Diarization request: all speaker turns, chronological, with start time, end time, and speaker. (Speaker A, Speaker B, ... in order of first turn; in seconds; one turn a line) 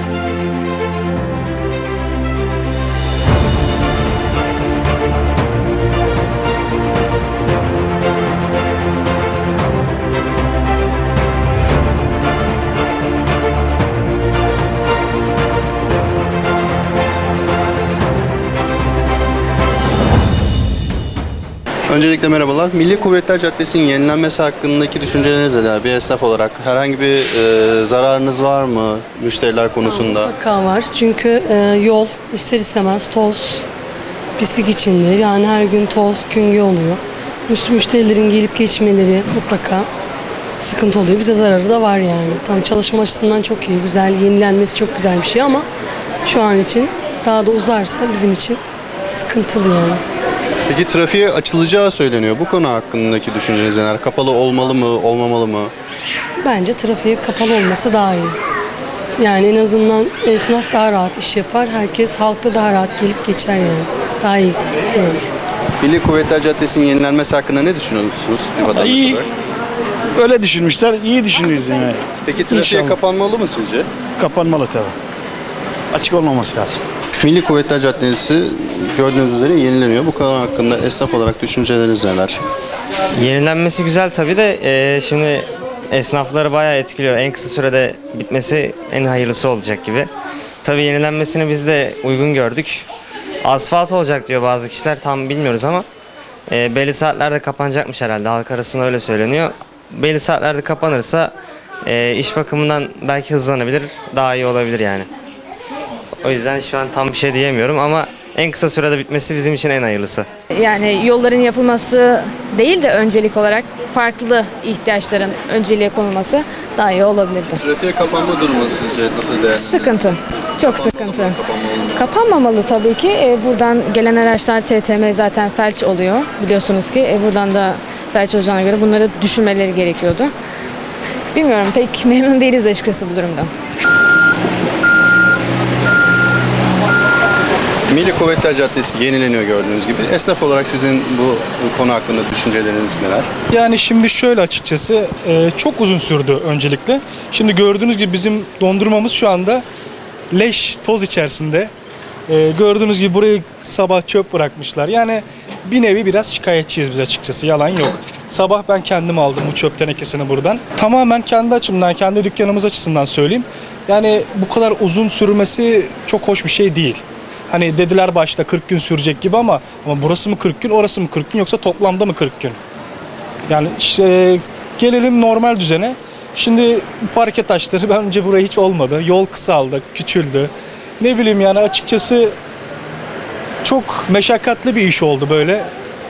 Speaker A: 21.9-30.3
Speaker B: 29.9-33.7
Speaker B: 34.4-39.9
Speaker B: 40.6-45.6
Speaker B: 46.3-48.6
Speaker B: 49.1-50.0
Speaker A: 50.7-55.7
Speaker B: 56.4-58.4
Speaker B: 59.2-65.3
Speaker A: 65.8-69.3
Speaker C: 70.2-72.0
Speaker A: 72.2-73.9
Speaker C: 74.2-74.9
Speaker C: 76.0-76.8
Speaker A: 77.2-82.4
Speaker D: 83.2-90.1
Speaker D: 90.6-92.8
Speaker D: 93.4-95.9
Speaker D: 96.5-101.3
Speaker D: 101.8-105.1
Speaker D: 106.2-110.3
Speaker E: 110.6-117.6
Speaker A: 117.6-122.1
Speaker E: 122.0-130.3
Speaker E: 131.3-133.5
Speaker A: 137.9-143.3
Speaker F: 143.5-149.6
Speaker F: 150.3-151.7
Speaker F: 152.3-172.6
Speaker F: 173.5-182.3
Speaker F: 183.6-185.7